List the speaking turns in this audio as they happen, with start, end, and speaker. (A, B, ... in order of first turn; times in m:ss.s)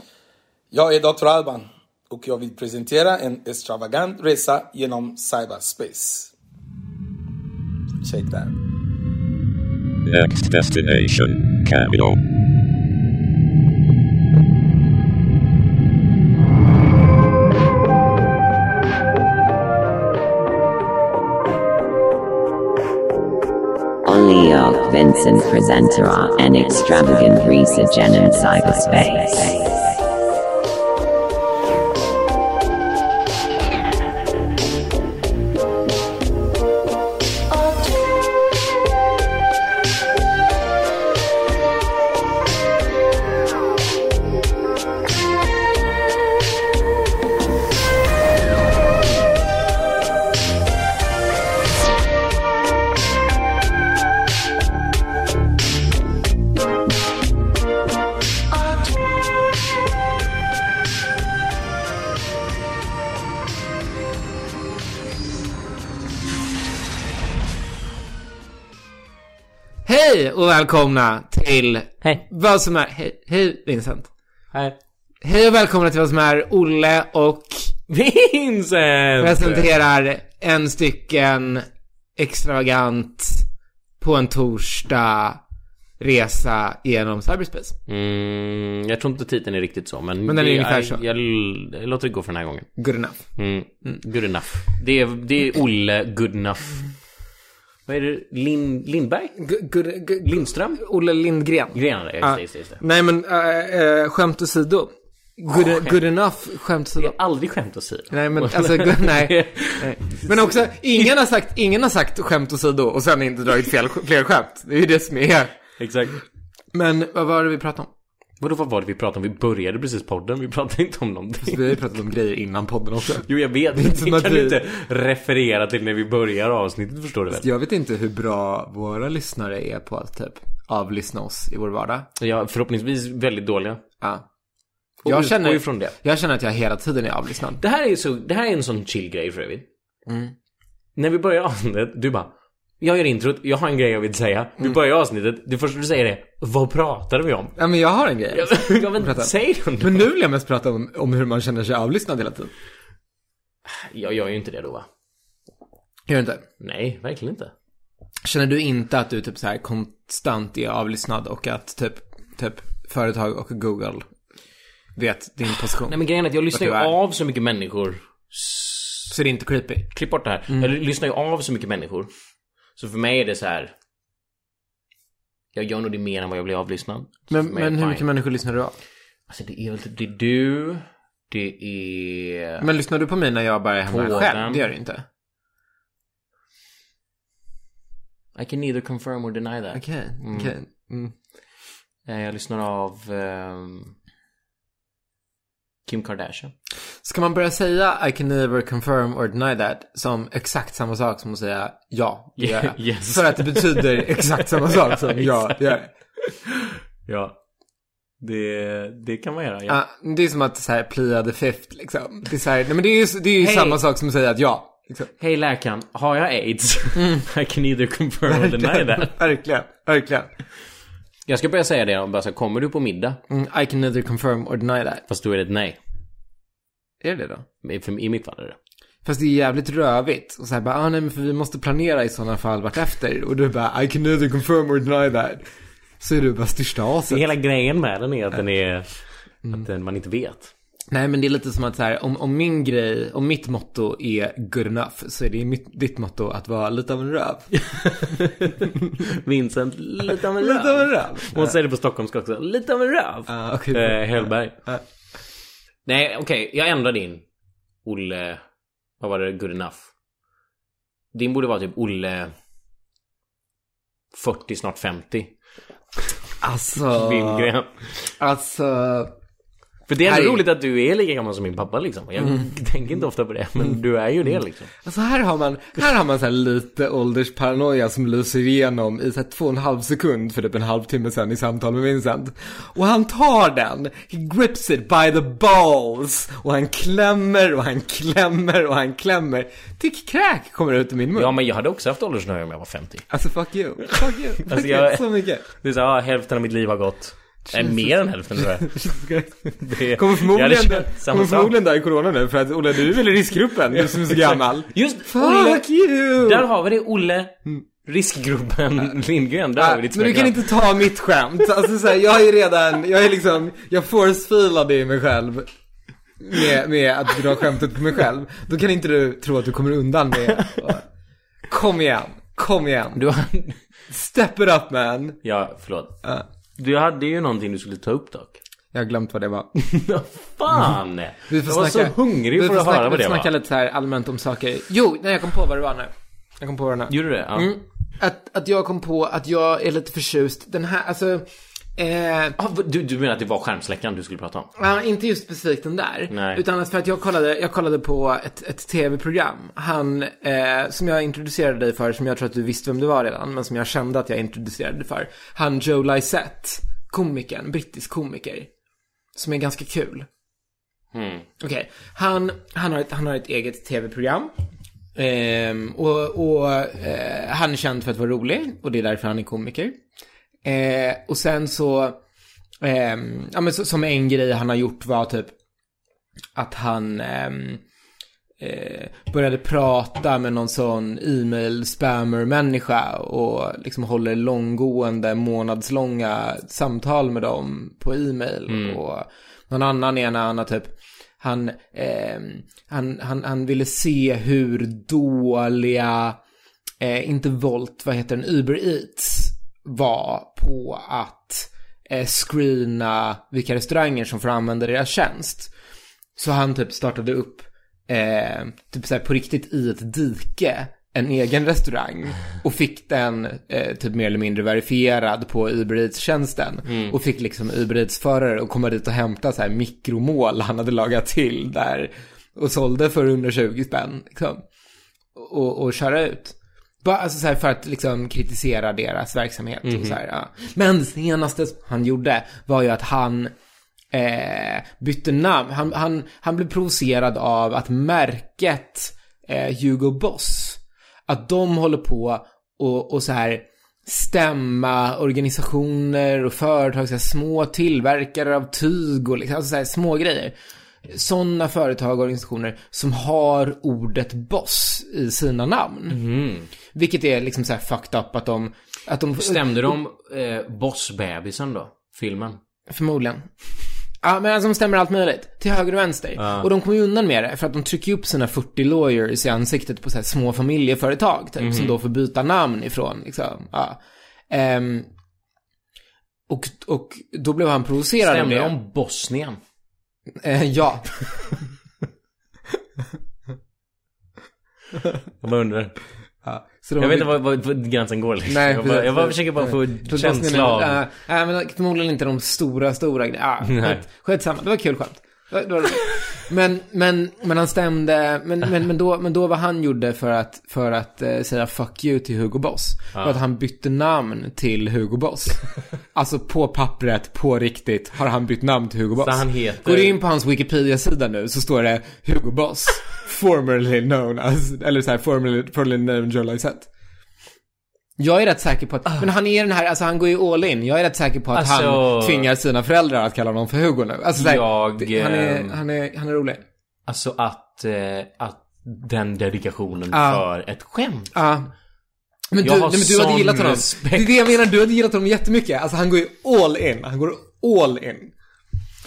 0:00.7-0:06.3 A
0:08.0-0:08.5 A
0:10.1-0:12.2 B
0:24.1-0:29.8 C
1:09.8-1:14.1 D
1:15.2-1:17.8 D
1:17.9-1:19.7 E
1:19.2-1:23.5 D
1:24.0-1:25.4 D
1:26.0-1:27.8 D
1:27.9-1:32.7 E
1:30.2-1:31.0 D
1:32.8-1:33.2 D
1:33.4-1:36.8 E
1:37.9-1:39.4 E
1:39.4-1:47.2 D
1:40.2-1:40.8 E
1:41.7-1:42.8 E
1:45.5-1:46.0 E
1:47.0-1:51.1 E
1:48.1-1:55.5 D
1:55.8-1:56.2 E
1:56.7-1:57.9 D
1:58.4-2:01.8 E
2:01.4-2:04.6 D
2:03.2-2:07.5 E
2:07.4-2:12.1 D
2:12.2-2:13.8 E
2:15.0-2:16.0 E
2:15.0-2:17.6 D
2:17.6-2:19.7 E
2:20.1-2:20.3 D
2:21.0-2:27.6 E
2:27.6-2:32.5 D
2:28.3-2:30.1 E
2:33.6-2:34.9 E
2:36.1-2:36.4 D
2:36.6-2:37.5 E
2:38.2-2:44.1 D
2:45.0-2:46.0 D
2:45.9-2:49.1 E
2:46.5-2:46.9 D
2:49.1-2:49.9 D
2:49.9-2:52.1 E
2:52.8-2:53.7 E
2:55.5-2:58.0 E
2:57.3-2:58.8 D
2:59.3-3:02.6 E
3:02.6-3:05.1 D
3:03.9-3:04.6 E
3:08.4-3:10.5 E
3:09.7-3:11.1 D
3:12.1-3:14.0 E
3:15.9-3:16.5 E
3:17.0-3:25.9 D
3:22.4-3:25.7 E
3:26.5-3:27.4 E
3:28.2-3:29.8 E
3:29.7-3:35.1 D
3:33.4-3:33.8 E
3:35.2-3:39.1 E
3:37.0-3:37.2 D
3:38.3-3:40.3 D
3:41.3-3:43.2 E
3:43.3-3:45.0 D
3:45.1-3:45.8 E
3:47.0-3:47.5 D
3:47.6-3:48.6 E
3:49.0-3:55.5 D
3:56.0-3:57.2 D
3:57.1-4:00.5 E
4:00.9-4:07.5 D
4:07.5-4:14.6 E
4:10.3-4:11.6 D
4:13.3-4:14.8 D
4:15.9-4:17.2 E
4:17.8-4:18.4 E
4:19.0-4:19.9 E
4:21.1-4:22.3 E
4:24.1-4:25.3 E
4:26.4-4:27.5 D
4:26.9-4:28.1 E
4:28.2-4:29.1 D
4:29.9-4:34.7 E
4:30.1-4:30.4 D
4:32.2-4:32.4 D
4:34.8-4:51.4 D
4:51.2-4:53.1 E
4:53.1-4:55.4 D
4:53.9-4:58.8 E
4:57.6-4:57.8 D
4:58.4-5:06.5 D
4:59.5-5:01.5 E
5:03.8-5:10.4 E
5:09.6-5:15.5 D
5:16.2-5:20.9 D
5:21.5-5:23.0 D
5:23.0-5:23.6 E
5:23.9-5:25.2 D
5:25.2-5:26.0 E
5:26.6-5:28.4 E
5:28.7-5:29.5 D
5:29.6-5:33.3 E
5:31.3-5:42.4 D
5:36.9-5:37.5 E
5:42.4-5:44.5 E
5:44.6-5:58.5 D
5:46.1-5:46.4 E
5:59.2-6:00.1 D
6:00.9-6:01.3 E
6:01.4-6:04.3 D
6:05.0-6:09.8 D
6:10.4-6:12.0 D
6:12.6-6:15.3 D
6:16.4-6:17.6 D
6:18.4-6:36.2 D
6:28.5-6:28.8 E
6:36.8-6:45.5 D
6:46.2-7:04.4 D
6:56.7-6:57.0 E
7:05.2-7:13.3 D
7:09.6-7:10.0 E
7:13.9-7:36.0 D
7:35.9-7:36.5 E
7:36.7-7:39.8 D
7:39.2-7:42.4 E
7:42.7-7:43.3 D
7:44.0-7:54.9 D
7:46.2-7:46.5 E
7:51.4-7:51.8 E
7:56.3-7:58.6 D
7:58.0-7:59.4 E
8:00.1-8:01.3 D
8:05.2-8:05.8 E
8:06.2-8:07.1 D
8:06.8-8:10.8 E
8:08.3-8:36.7 D
8:13.4-8:13.8 E
8:22.9-8:23.2 E
8:29.0-8:30.0 E
8:38.0-8:46.4 D
8:41.3-8:42.3 E
8:44.2-8:45.6 E
8:46.9-8:51.1 E
8:49.9-8:50.2 D
8:51.1-8:51.5 D
8:52.3-8:58.1 D
8:52.4-8:54.1 E